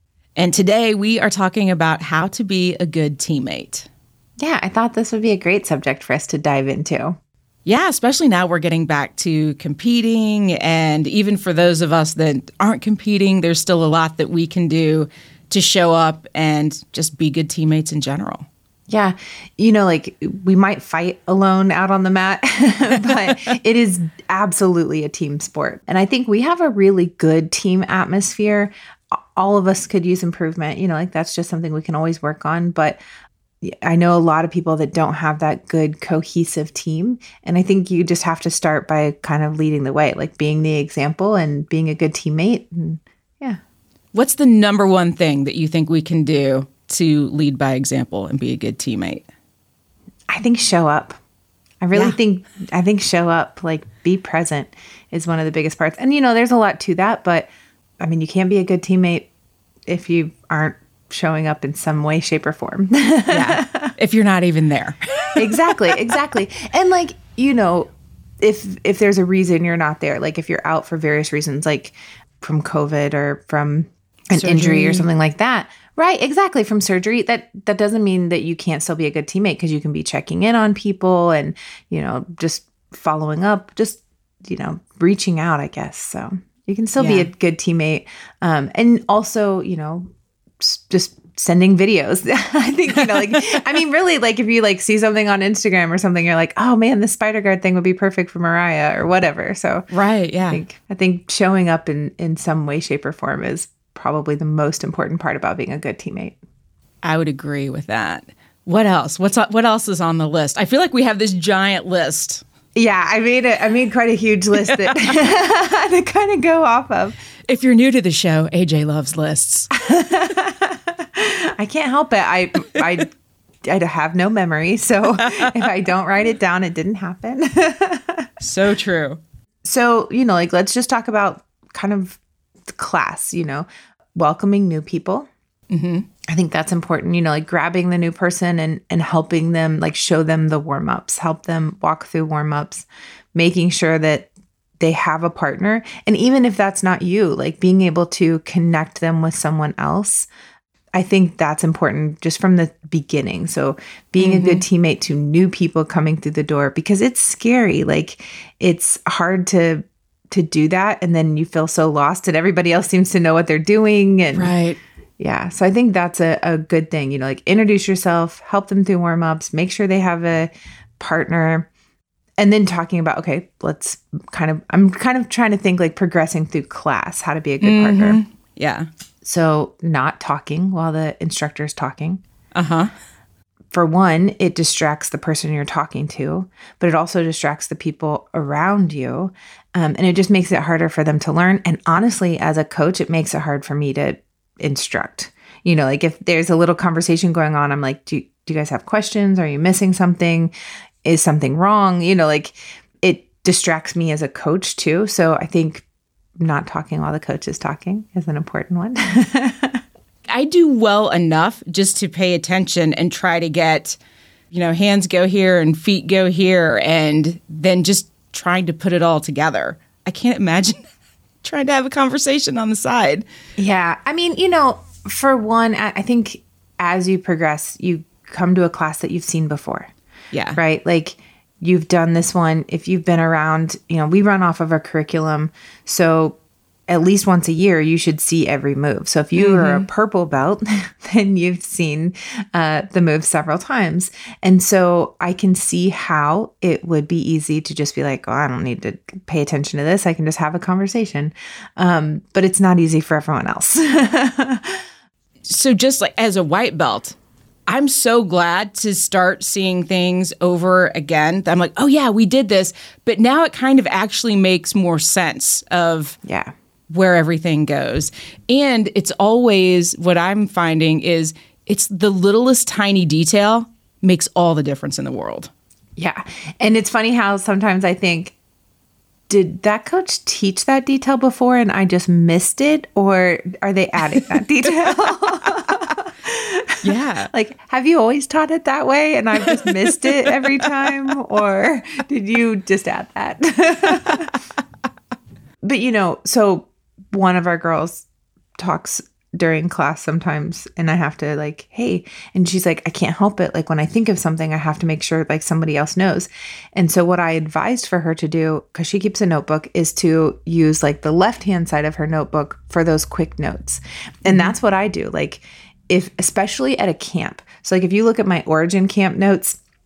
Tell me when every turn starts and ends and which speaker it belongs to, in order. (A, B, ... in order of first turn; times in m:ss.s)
0:00.4-0:03.9 A
0:04.4-0:07.2 B
0:07.6-0:18.5 A
0:18.9-0:33.0 B
0:33.6-0:43.6 B
0:44.1-0:49.2 A
0:50.3-0:51.2 B
0:51.8-0:57.5 B
0:58.0-0:59.3 B
0:59.9-1:03.9 B
1:03.3-1:05.9 A
1:05.4-1:39.9 B
1:14.3-1:15.1 A
1:27.0-1:27.3 A
1:33.0-1:33.4 A
1:39.9-1:40.6 A
1:40.5-1:46.4 B
1:47.0-1:52.4 A
1:52.7-1:57.2 B
1:54.7-1:55.1 A
1:57.5-1:59.7 A
1:59.7-2:03.1 B
2:03.6-2:08.3 B
2:05.2-2:05.5 A
2:08.4-2:09.2 A
2:09.6-2:15.3 B
2:15.7-2:16.1 A
2:16.3-2:30.3 B
2:30.9-2:44.5 B
2:34.2-2:34.6 A
2:44.3-2:44.8 A
2:45.2-2:51.7 B
2:52.4-2:58.2 B
2:57.6-2:58.9 A
2:59.2-3:02.2 B
3:02.5-3:02.9 A
3:03.7-3:20.5 B
3:21.0-3:25.8 B
3:26.4-3:29.8 B
3:30.3-3:34.0 A
3:34.5-3:40.8 A
3:41.4-3:43.2 A
3:43.6-3:49.9 B
3:50.3-3:50.6 A
3:50.5-3:56.4 B
3:56.9-4:14.8 B
3:59.4-3:59.9 A
4:15.5-4:17.2 A
4:17.7-4:26.2 A
4:26.2-4:26.5 B
4:26.9-4:35.5 A
4:36.0-4:38.4 B
4:39.3-4:54.3 B
4:46.8-4:47.3 A
4:55.6-4:58.0 B
4:58.6-5:19.6 B
5:14.3-5:14.5 A